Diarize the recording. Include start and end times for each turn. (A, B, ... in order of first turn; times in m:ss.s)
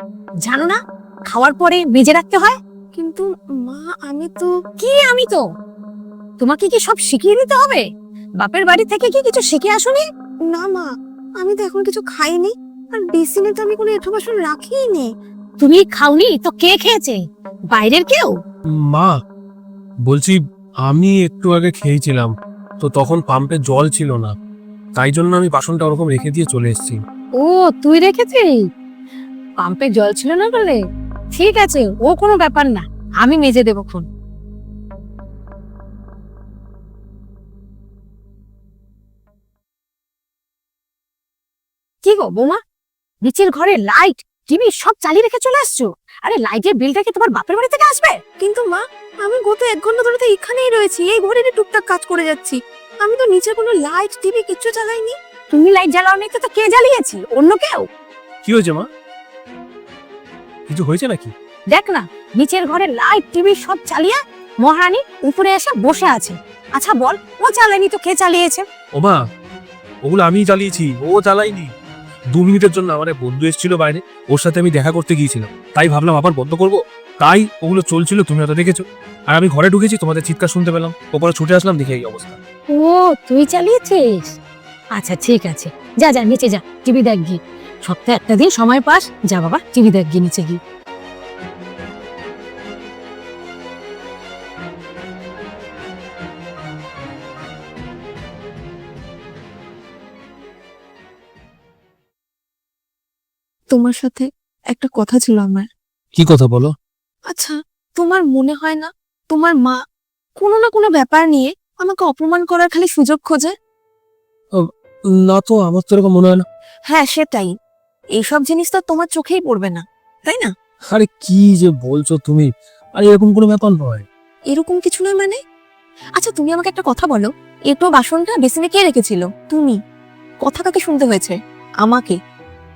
0:00.5-0:00.8 A
0:01.3-0:02.6 A
0:03.0-0:04.5 B
0:04.8-0:05.4 A
0:06.4-0:07.8 A
0:08.4-0:10.0 A
0:10.5-0:15.1 B
0:15.6-0:18.3 A
0:20.1-0:24.3 C
0:25.0-0:27.0 C
0:27.4-0:28.6 A
0:29.6-0:30.8 A
0:31.3-0:34.1 A
0:42.0-0:42.6 A
0:43.2-0:48.2 A
0:48.4-0:55.2 B
0:55.5-0:57.8 A
0:58.4-0:58.9 C
1:00.7-1:01.3 C
1:01.7-1:08.6 A
1:10.0-1:11.7 C
1:12.3-1:22.4 C
1:22.7-1:24.3 A
1:25.0-1:30.6 A
1:43.7-1:45.7 B
1:46.2-1:46.7 C
1:47.3-1:49.8 B
1:50.4-1:53.5 B
1:55.3-1:56.4 C
1:56.9-1:57.5 B
1:58.2-2:00.5 B
2:00.9-2:04.1 C
2:04.5-2:05.4 B
2:06.2-2:09.8 B
2:10.4-2:12.2 B